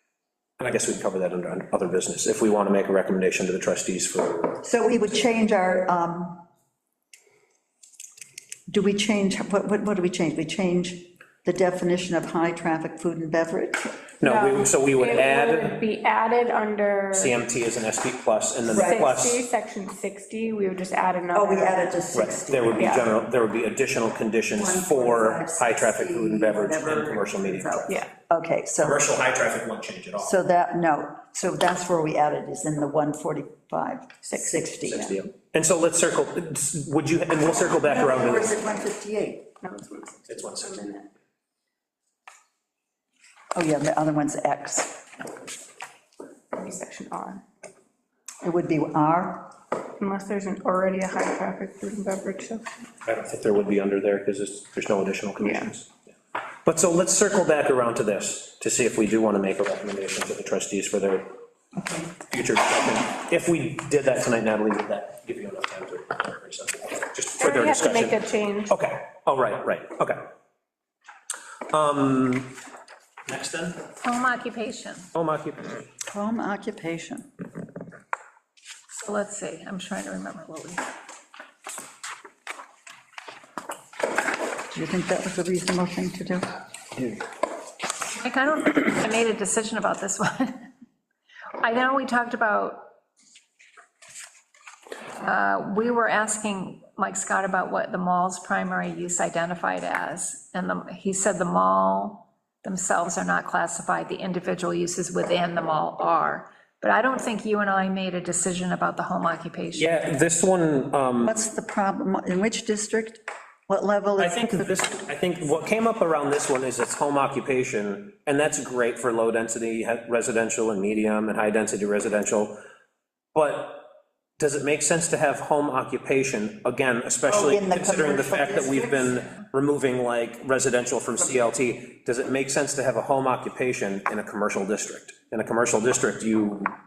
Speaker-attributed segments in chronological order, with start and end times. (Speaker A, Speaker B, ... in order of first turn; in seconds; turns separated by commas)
Speaker A: 0.6-4.6, Speaker B: 4.6-6.4, Speaker B: 8.7-14.0, Speaker A: 14.2-15.8, Speaker C: 14.2-17.4, Speaker A: 17.1-19.4, Speaker C: 18.7-21.9, Speaker B: 18.7-19.1, Speaker B: 21.3-23.1, Speaker A: 22.1-28.0, Speaker B: 24.5-29.0, Speaker A: 28.8-30.3, Speaker B: 30.2-35.1, Speaker C: 34.2-34.7, Speaker A: 34.9-38.5, Speaker B: 37.6-39.5, Speaker C: 39.6-41.1, Speaker A: 40.3-40.8, Speaker B: 43.5-45.1, Speaker C: 46.5-47.4, Speaker B: 48.4-49.5, Speaker C: 50.0-52.7, Speaker A: 53.0-55.9, Speaker C: 55.4-55.7, Speaker A: 56.6-61.3, Speaker A: 61.9-70.3, Speaker C: 67.4-68.7, Speaker A: 71.7-72.5, Speaker A: 73.3-73.9, Speaker D: 74.0-75.1, Speaker A: 75.1-75.8, Speaker B: 76.1-77.3, Speaker D: 78.9-80.8, Speaker B: 84.7-87.2, Speaker D: 88.1-90.7, Speaker D: 91.6-92.9, Speaker D: 95.2-109.9, Speaker A: 109.8-111.3, Speaker B: 111.2-114.7, Speaker A: 114.2-122.6, Speaker A: 123.3-123.9, Speaker A: 124.4-136.7, Speaker B: 127.3-129.2